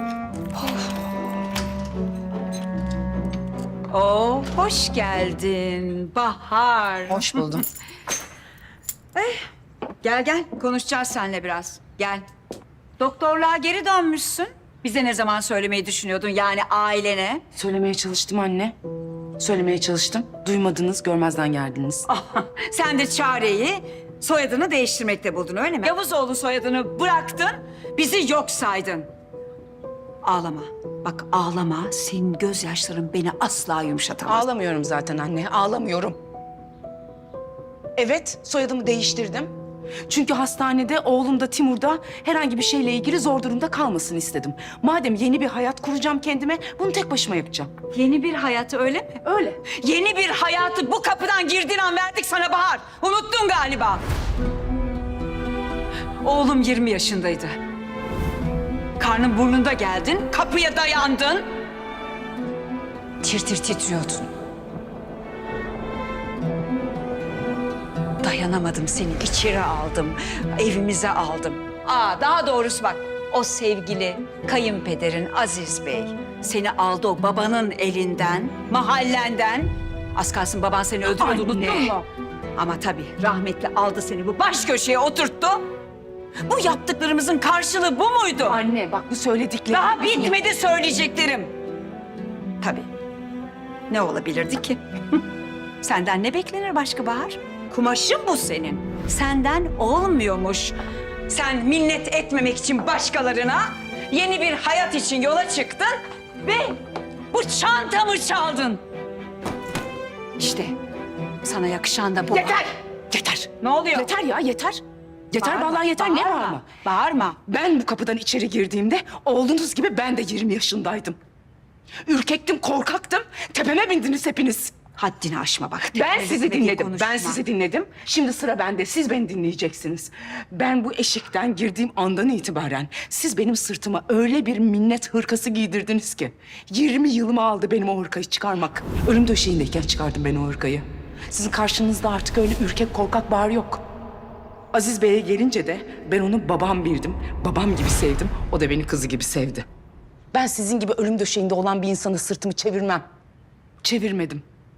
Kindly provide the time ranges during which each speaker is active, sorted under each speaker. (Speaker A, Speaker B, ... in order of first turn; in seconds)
Speaker A: 0.5-1.0, 3.9-7.6, 9.1-9.4, 10.0-12.2, 13.0-17.4, 22.1-29.1, 30.2-34.5, 47.9-54.0, 56.2-57.5, 59.0-61.4, 63.2-64.3, 68.2-85.6, 86.4-88.6, 89.7-91.5, 92.6-92.9, 93.9-95.2, 95.8-100.8, 101.3-106.8, 107.3-108.8, 110.4-110.8, 111.4-112.7, 113.6-114.1, 115.4-117.4, 125.0-127.4
Speaker B: 7.1-7.6, 17.6-18.8, 19.4-22.1, 34.2-36.2, 38.0-39.5, 40.1-47.7, 81.1-82.0, 88.4-90.4, 112.3-114.8, 115.3-116.7, 117.5-121.2, 122.1-124.8, 125.9-143.8, 144.7-149.7, 150.3-153.0, 153.8-154.4